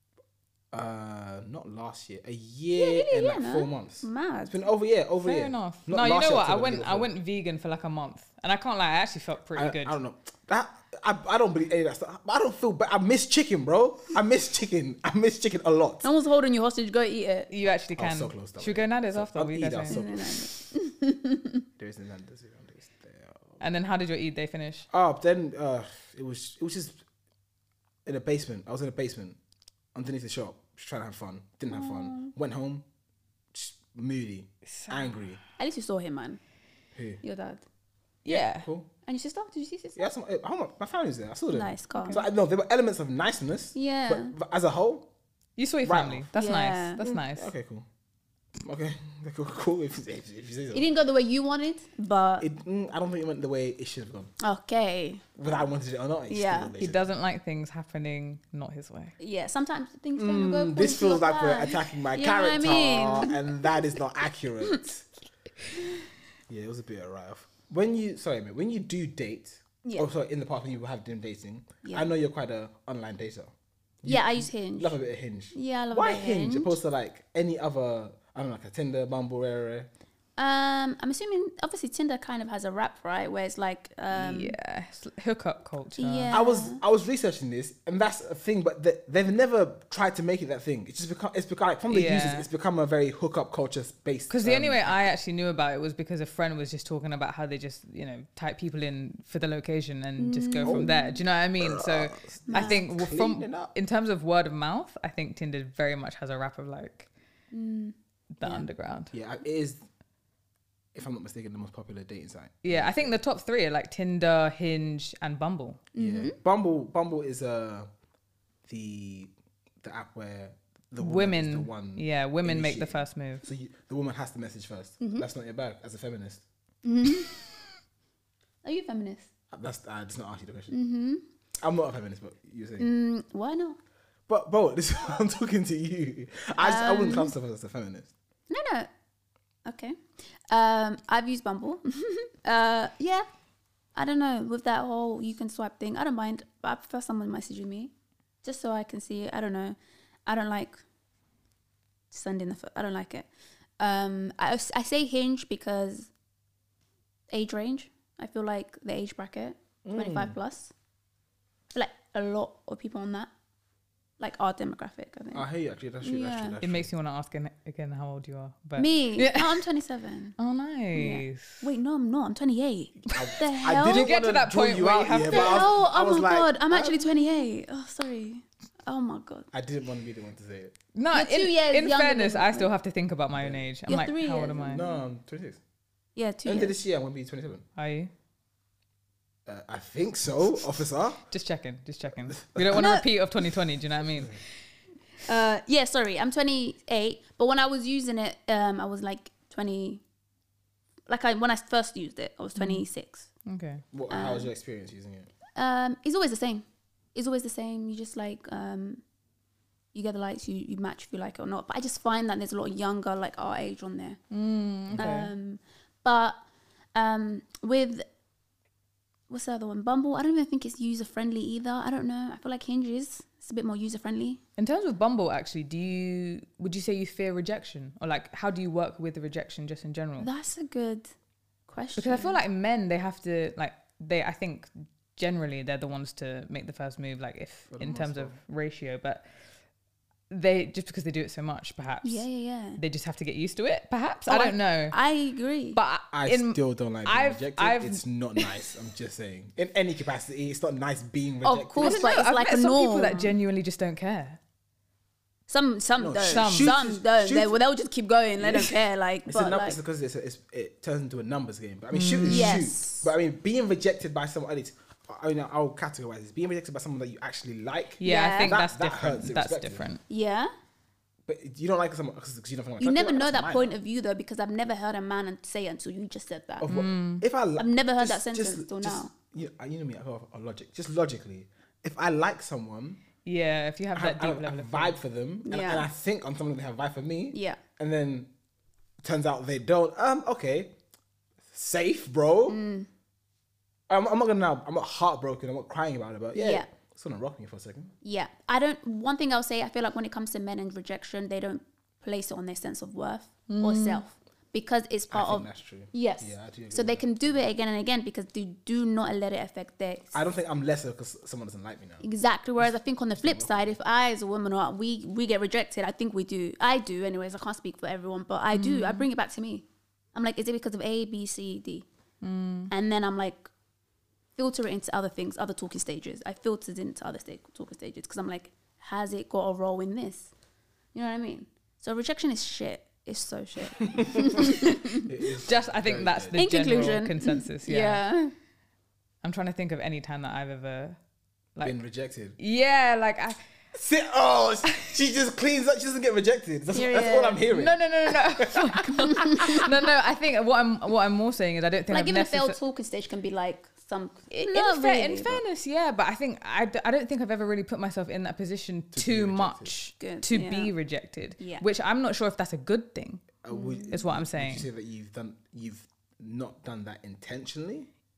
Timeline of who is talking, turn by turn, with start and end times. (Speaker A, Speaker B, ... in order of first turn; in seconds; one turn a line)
Speaker A: 0.7-7.1
Speaker B: 2.8-4.7
Speaker C: 5.2-10.0
Speaker A: 9.6-16.1
Speaker B: 16.0-17.5
Speaker C: 17.5-20.0
Speaker A: 18.0-20.5
Speaker B: 19.9-21.6
Speaker A: 21.8-23.6
Speaker C: 23.6-24.9
Speaker A: 24.9-27.0
Speaker A: 28.1-29.4
Speaker A: 29.9-32.9
Speaker B: 31.7-32.3
Speaker A: 33.5-35.4
Speaker C: 34.7-35.1
Speaker B: 35.6-36.4
Speaker A: 37.0-37.2
Speaker B: 37.2-37.6
Speaker C: 38.2-38.7
Speaker A: 38.3-38.9
Speaker B: 39.1-40.0
Speaker A: 40.0-45.1
Speaker B: 41.5-42.2
Speaker B: 43.8-44.4
Speaker C: 45.6-47.5
Speaker A: 45.9-46.3
Speaker B: 46.4-47.0
Speaker A: 47.0-47.9
Speaker A: 48.6-50.9
Speaker B: 50.7-52.5
Speaker A: 52.4-54.3
Speaker B: 54.4-55.3
Speaker A: 55.4-57.1
Speaker B: 56.3-56.7
Speaker C: 56.8-59.1
Speaker B: 59.2-63.7
Speaker A: 60.2-65.1
Speaker A: 66.5-79.9
Speaker B: 74.0-75.0
Speaker B: 75.5-76.7
Speaker B: 80.4-84.6
Speaker C: 84.1-86.4
Speaker B: 86.0-86.8
Speaker A: 86.3-95.0
Speaker C: 91.9-92.5
Speaker C: 94.3-107.1
Speaker B: 100.2-101.2
Speaker A: 100.6-100.9
Speaker A: 101.6-103.7
Speaker B: 102.5-102.8
Speaker B: 107.5-108.7
Speaker C: 108.4-109.1
Speaker A: 109.1-109.8
Speaker A: 110.9-113.2
Speaker C: 112.6-115.8
Speaker B: 115.9-116.4
Speaker A: 116.0-117.9
Speaker A: 118.7-126.4
Speaker C: 121.0-123.5
Speaker B: 125.0-125.3
Speaker B: 126.8-127.3
Speaker B: 128.6-129.3
Speaker A: 129.5-130.7
Speaker B: 130.7-131.2
Speaker A: 131.6-132.9
Speaker B: 132.8-133.8
Speaker A: 134.3-138.1
Speaker B: 136.6-137.3
Speaker B: 138.5-138.9
Speaker B: 139.7-140.0
Speaker B: 140.5-143.3
Speaker B: 143.9-147.9
Speaker B: 148.4-150.8
Speaker B: 152.1-153.3
Speaker B: 153.8-156.1
Speaker B: 157.3-160.7
Speaker A: 159.8-160.4
Speaker B: 161.7-163.3
Speaker B: 164.2-165.5
Speaker A: 165.3-166.9
Speaker B: 166.0-166.6
Speaker C: 166.6-169.6
Speaker B: 168.8-170.4
Speaker C: 170.4-171.7
Speaker B: 170.9-174.1
Speaker A: 173.1-177.2
Speaker C: 173.1-175.7
Speaker B: 175.2-179.5
Speaker A: 179.5-180.8
Speaker C: 180.9-184.8
Speaker B: 181.1-182.7
Speaker A: 183.4-183.8
Speaker B: 183.9-185.0
Speaker A: 184.6-185.6
Speaker B: 186.2-186.8
Speaker A: 186.4-187.7
Speaker C: 187.8-188.1
Speaker A: 189.5-191.2
Speaker C: 191.3-194.4
Speaker A: 192.3-192.8
Speaker B: 192.7-193.1
Speaker B: 195.2-200.0
Speaker B: 201.1-203.3
Speaker C: 202.6-202.8
Speaker C: 203.5-203.8
Speaker A: 203.9-205.3
Speaker B: 204.1-204.5
Speaker B: 205.6-209.0
Speaker B: 209.9-214.2
Speaker C: 214.3-215.3
Speaker A: 214.9-215.2
Speaker B: 215.0-216.4
Speaker B: 216.9-218.1
Speaker B: 219.3-224.4
Speaker C: 224.6-230.3
Speaker B: 230.2-231.1
Speaker B: 231.7-232.4
Speaker C: 232.0-239.3
Speaker A: 237.7-238.4
Speaker C: 240.3-242.3
Speaker B: 242.0-242.8
Speaker C: 242.8-245.0
Speaker B: 244.3-245.8
Speaker C: 245.7-248.5
Speaker A: 246.1-252.2
Speaker B: 251.4-253.3
Speaker C: 251.8-254.4
Speaker B: 255.5-259.8
Speaker A: 256.0-257.6
Speaker C: 256.2-256.8
Speaker A: 258.4-258.8
Speaker A: 259.3-269.9
Speaker C: 261.9-262.6
Speaker B: 262.3-263.1
Speaker C: 268.0-270.0
Speaker B: 268.0-268.6
Speaker B: 270.1-270.5
Speaker A: 271.3-273.8
Speaker B: 272.8-276.7
Speaker A: 276.6-283.0
Speaker C: 276.7-277.2
Speaker B: 277.6-279.1
Speaker C: 283.2-285.0
Speaker A: 283.9-288.3
Speaker B: 285.5-285.9
Speaker B: 287.3-287.6
Speaker A: 289.0-290.7
Speaker A: 291.5-292.6
Speaker B: 292.5-292.9
Speaker A: 293.9-297.9
Speaker B: 296.3-296.7
Speaker B: 298.0-310.2
Speaker C: 303.5-304.0
Speaker A: 305.1-307.5
Speaker A: 310.1-312.1
Speaker B: 312.0-321.9
Speaker A: 312.6-313.8
Speaker C: 318.5-319.1
Speaker C: 322.2-322.7
Speaker B: 322.7-323.5
Speaker B: 324.4-330.3
Speaker B: 330.9-335.1
Speaker A: 333.9-336.9
Speaker C: 335.4-338.0
Speaker B: 336.4-338.3
Speaker C: 339.2-341.0
Speaker A: 341.6-342.4
Speaker C: 342.4-343.4
Speaker A: 343.7-349.7
Speaker B: 346.7-347.4
Speaker C: 347.5-352.6
Speaker B: 351.9-355.4
Speaker C: 354.3-364.7
Speaker A: 358.9-359.7
Speaker B: 360.0-360.7
Speaker B: 361.4-361.6
Speaker A: 363.4-367.9
Speaker B: 363.5-364.0